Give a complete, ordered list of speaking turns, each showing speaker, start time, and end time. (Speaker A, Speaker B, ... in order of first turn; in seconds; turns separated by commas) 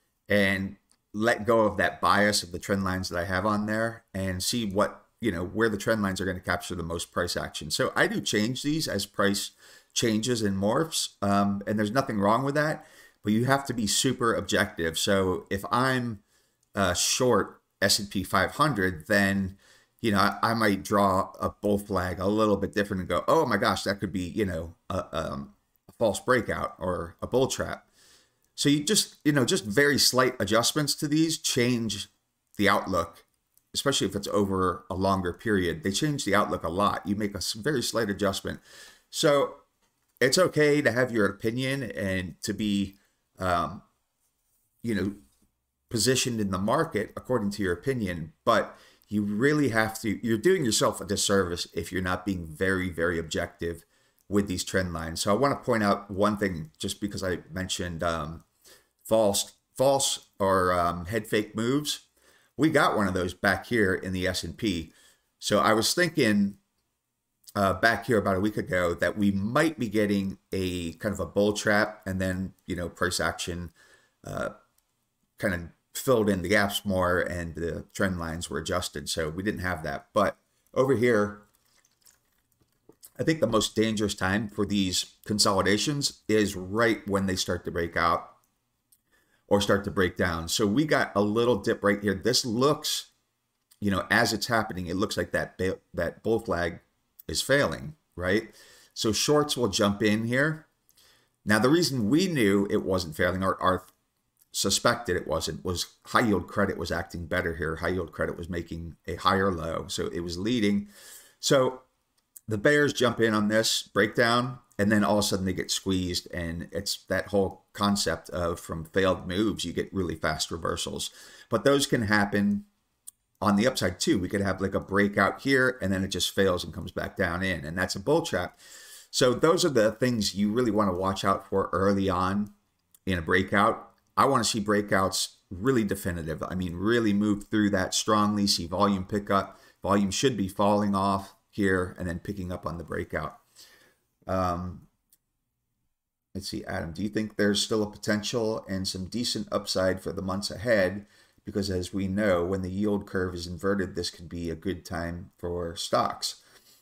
Speaker A: 0.3-16.2, Speaker A: 16.8-27.9, Speaker A: 28.6-39.6, Speaker A: 40.2-43.9, Speaker A: 44.8-45.2, Speaker A: 45.9-58.5, Speaker A: 59.0-62.1, Speaker A: 62.6-66.6, Speaker A: 67.6-73.7, Speaker A: 74.2-74.5, Speaker A: 75.4-81.5, Speaker A: 83.2-88.4, Speaker A: 89.5-93.1, Speaker A: 93.8-100.7, Speaker A: 101.5-103.9, Speaker A: 104.5-111.8, Speaker A: 112.5-122.7, Speaker A: 123.4-128.6, Speaker A: 129.1-132.5, Speaker A: 133.1-143.4, Speaker A: 144.3-144.9, Speaker A: 146.3-156.4